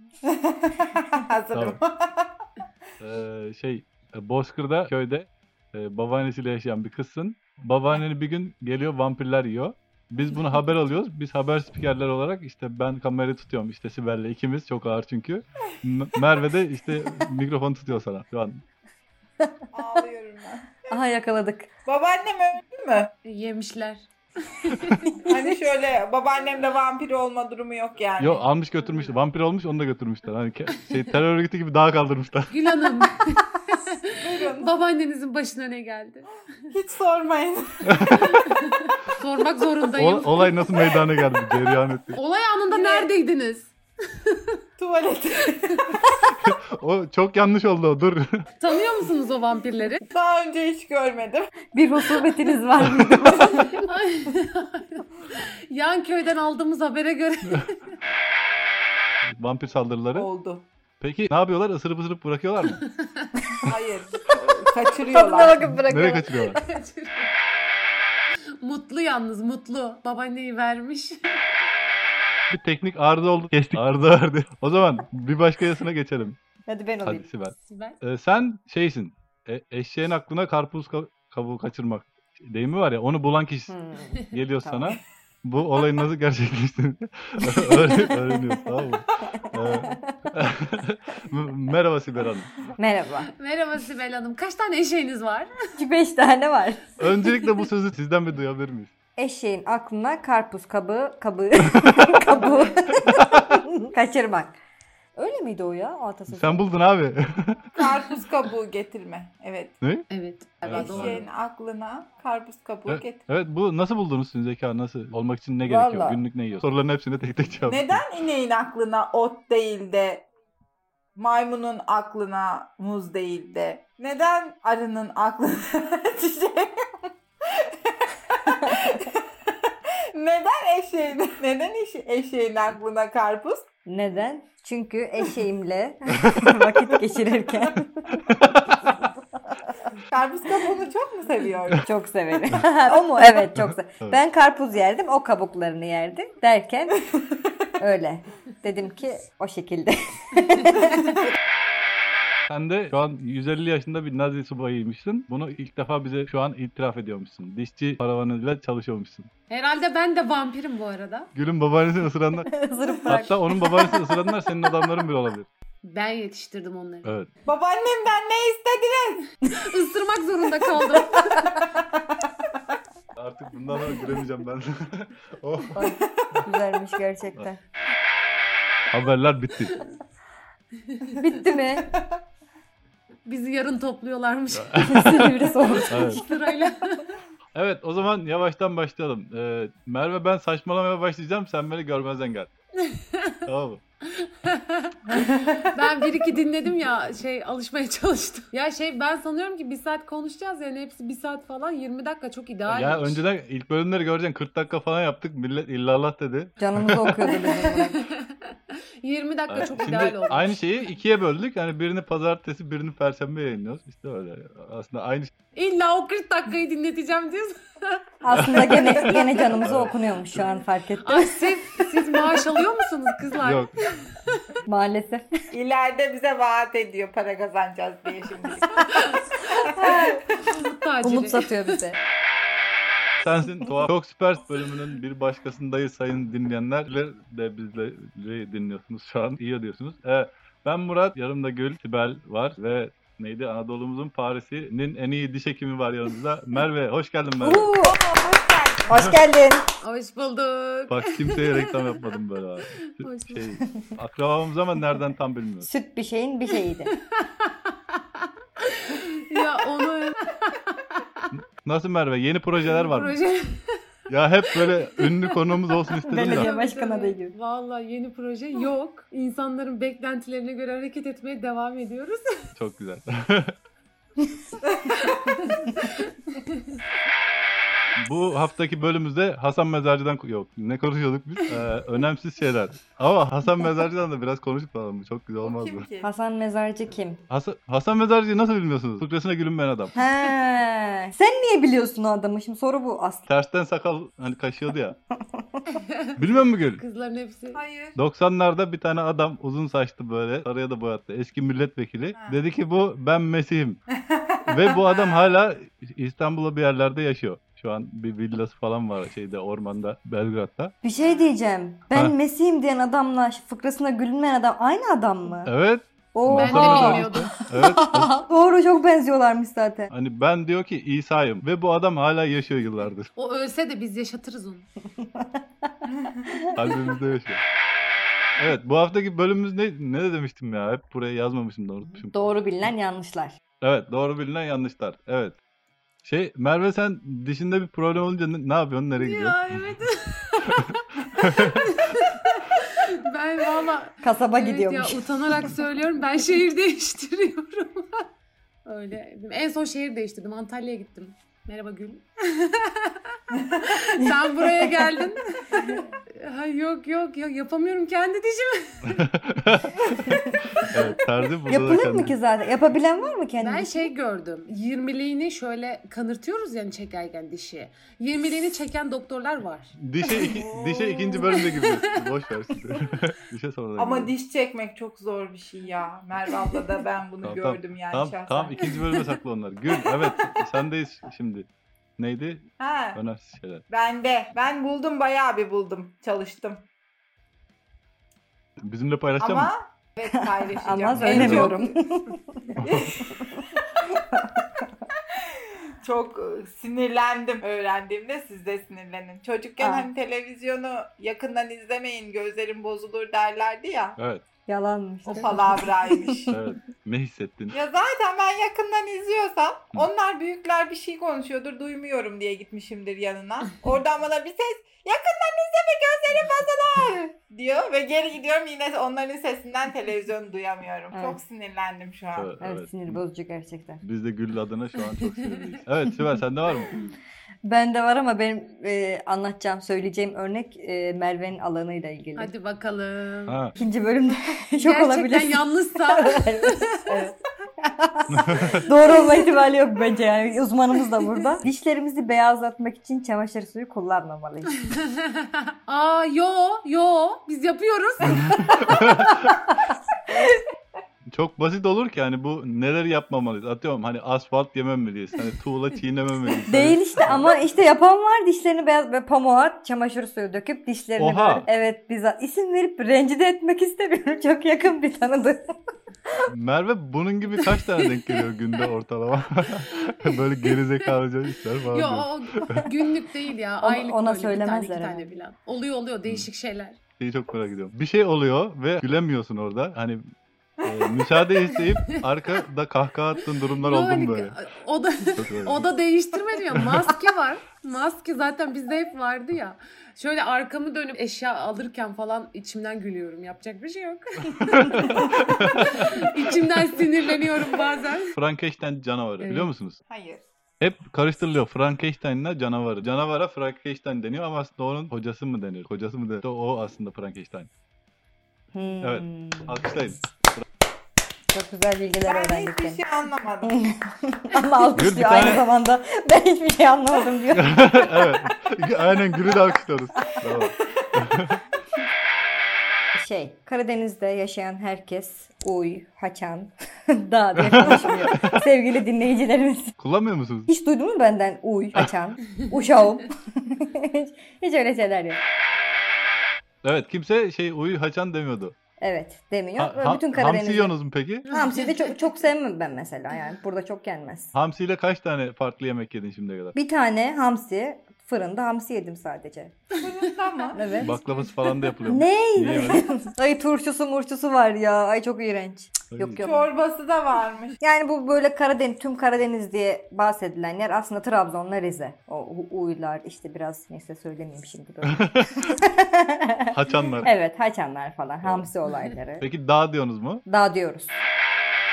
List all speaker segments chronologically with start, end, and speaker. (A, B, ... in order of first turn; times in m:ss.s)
0:00.4-0:02.4 A
0:01.5-0:01.8 B
0:03.0-0:18.6 B
0:19.7-0:20.9 A
0:20.9-0:21.7 C
0:21.8-0:23.1 A
0:23.2-0:25.3 D
0:25.2-0:28.4 A
0:28.2-0:32.6 B
0:32.5-0:36.3 D
0:34.1-0:34.7 A
0:36.7-0:38.0 A
0:37.8-0:38.4 B
0:38.1-0:40.5 D
0:40.0-0:42.2 B
0:42.1-0:44.4 D
0:42.7-0:43.1 A
0:44.8-0:46.2 A
0:45.7-0:45.9 D
0:46.2-0:48.5 B
0:48.6-0:50.0 D
0:50.1-0:51.5 A
0:51.7-0:53.8 C
0:52.8-0:53.4 B
0:53.4-0:57.8 D
0:59.4-1:00.3 B
1:00.1-1:00.6 A
1:01.0-1:02.8 B
1:02.8-1:03.3 D
1:03.7-1:05.6 A
1:05.1-1:06.3 C
1:05.6-1:06.6 B
1:06.3-1:07.3 D
1:08.6-1:11.4 D
1:12.5-1:16.4 B
1:16.7-1:17.3 C
1:17.0-1:23.7 B
1:17.7-1:18.0 D
1:23.7-1:25.0 C
1:24.3-1:32.7 B
1:27.5-1:28.6 C
1:29.3-1:30.1 C
1:32.8-1:33.3 C
1:33.4-1:35.5 D
1:35.8-1:36.9 C
1:37.0-1:38.9 B
1:39.2-1:44.6 C
1:43.1-1:43.6 B
1:45.2-1:46.6 C
1:46.3-1:47.8 B
1:47.8-1:49.7 A
1:49.8-1:50.0 B
1:50.1-1:51.2 D
1:50.6-1:51.2 B
1:50.7-1:53.2 A
1:52.9-1:58.0 B
1:55.6-1:56.2 C
1:57.6-2:00.2 A
2:01.2-2:13.6 A
2:13.8-2:18.2 C
2:16.3-2:16.9 B
2:18.3-2:18.8 B
2:20.1-2:21.9 A
2:21.8-2:27.0 C
2:23.9-2:24.2 B
2:27.8-2:31.1 C
2:32.5-2:39.3 B
2:39.5-2:41.3 D
2:41.3-2:42.5 B
2:42.4-2:44.9 C
2:43.1-2:45.5 B
2:45.8-2:47.1 D
2:47.0-2:47.3 B
2:47.4-2:49.2 A
2:49.5-2:51.6 D
2:53.2-2:55.8 B
2:55.7-2:57.6 C
2:58.9-2:59.8 B
3:00.9-3:01.2 D
3:01.2-3:01.9 C
3:03.2-3:05.1 D
3:04.7-3:05.3 B
3:04.8-3:06.4 C
3:05.8-3:07.0 D
3:05.9-3:06.2 B
3:07.5-3:12.5 B
3:12.8-3:13.4 D
3:13.4-3:13.8 B
3:14.2-3:23.2 D
3:15.1-3:15.6 C
3:22.7-3:27.2 B
3:26.6-3:28.0 C
3:27.3-3:30.6 D
3:29.5-3:35.3 B
3:35.5-3:37.9 D
3:38.2-3:41.6 C
3:38.3-3:40.5 B
3:38.8-3:39.2 D
3:41.0-3:44.2 D
3:43.4-3:43.7 B
3:44.6-3:45.3 C
3:45.5-3:48.8 A
3:48.7-3:49.7 D
3:49.4-3:50.2 A
3:49.7-3:50.3 C
3:50.4-3:51.5 D
3:51.0-3:52.0 C
3:53.2-4:07.7 B
4:07.4-4:08.0 C
4:07.8-4:09.1 A
4:08.9-4:09.7 C
4:09.8-4:12.0 D
4:10.9-4:15.7 B
4:12.8-4:13.5 D
4:15.6-4:16.9 C
4:17.1-4:21.3 D
4:21.3-4:23.2 B
4:22.6-4:23.8 D
4:24.1-4:26.5 B
4:24.5-4:25.6 D
4:26.0-4:27.3 C
4:26.1-4:32.2 D
4:32.6-4:33.5 B
4:34.8-4:35.4 A
4:35.0-4:36.6 D
4:38.0-4:45.9 B
4:45.4-4:46.1 A
4:46.0-4:47.2 C
4:47.3-4:50.0 B
4:50.0-4:53.2 C
4:53.2-4:55.0 B
4:55.2-4:55.6 C
4:56.2-4:56.8 B
4:56.8-4:57.6 D
4:57.5-4:58.0 A
4:58.0-5:03.8 B
5:04.0-5:05.3 A
5:04.4-5:10.7 B
5:10.8-5:15.5 C
5:11.0-5:11.3 A
5:15.4-5:18.2 B
5:16.1-5:19.9 C
5:16.3-5:17.3 D
5:19.9-5:23.1 B
5:23.2-5:24.6 D
5:25.0-5:25.7 C
5:26.5-5:27.4 B
5:28.4-5:32.1 B
5:32.1-5:33.4 C
5:33.6-5:35.4 B
5:36.0-5:39.7 B
5:39.0-5:48.0 D
5:41.2-5:41.6 B
5:44.0-5:45.5 C
5:48.6-5:53.0 D
5:53.5-5:59.0 D
5:59.0-6:02.1 B
6:01.5-6:03.9 C
6:03.4-6:10.3 D
6:09.8-6:14.1 B
6:10.3-6:11.2 A
6:11.1-6:11.8 D
6:13.8-6:18.9 A
6:17.2-6:23.6 B
6:22.6-6:23.0 A
6:23.7-6:26.6 A
6:28.6-6:29.5 B
6:29.2-6:31.7 A
6:30.6-6:33.2 C
6:30.9-6:31.6 B
6:32.6-6:33.3 A
6:34.1-6:34.5 C
6:35.8-6:44.0 A
6:39.6-6:39.9 C
6:44.0-6:44.2 B
6:44.5-6:46.3 C
6:45.1-6:46.3 A
6:46.3-6:47.6 B
6:47.5-7:02.3 A
7:00.9-7:01.2 C
7:02.1-7:03.0 B
7:02.4-7:03.8 C
7:03.8-7:06.7 B
7:05.2-7:05.6 D
7:07.4-7:12.3 C
7:12.2-7:13.5 D
7:13.6-7:24.5 C
7:14.6-7:16.9 D
7:18.1-7:18.6 B
7:18.6-7:19.3 D
7:24.7-7:28.6 D
7:28.1-7:29.4 B
7:31.1-7:37.3 B
7:36.5-7:45.5 C
7:41.0-7:41.5 B
7:46.3-7:52.6 B
7:51.7-7:56.8 D
7:53.6-7:55.1 C
7:57.0-8:00.0 B
8:00.6-8:04.3 B
8:03.6-8:18.1 D
8:05.1-8:05.6 B
8:14.4-8:16.0 B
8:18.1-8:19.8 B
8:19.2-8:19.5 D
8:19.9-8:20.2 A
8:20.6-8:27.5 B
8:28.5-8:29.6 C
8:28.8-8:30.4 B
8:31.3-8:32.8 C
8:32.0-8:33.6 A
8:33.4-8:38.1 C
8:34.7-8:35.4 B
8:37.4-8:41.4 B
8:42.9-8:49.7 C
8:47.4-8:48.4 B
8:49.8-8:50.5 B
8:50.5-8:55.2 C
8:56.6-8:58.5 B
8:58.8-9:00.7 C
8:59.6-9:01.4 B
9:01.3-9:04.3 C
9:04.3-9:06.5 B
9:06.5-9:09.6 C
9:09.8-9:10.6 A
9:10.5-9:10.9 C
9:10.6-9:10.9 D
9:10.8-9:12.9 B
9:11.9-9:16.5 C
9:15.9-9:16.3 B
9:16.2-9:17.6 A
9:17.6-9:26.5 C
9:24.9-9:25.5 B
9:26.5-9:27.1 B
9:27.0-9:29.3 C
9:28.2-9:28.5 B
9:29.2-9:30.2 B
9:30.3-9:31.0 C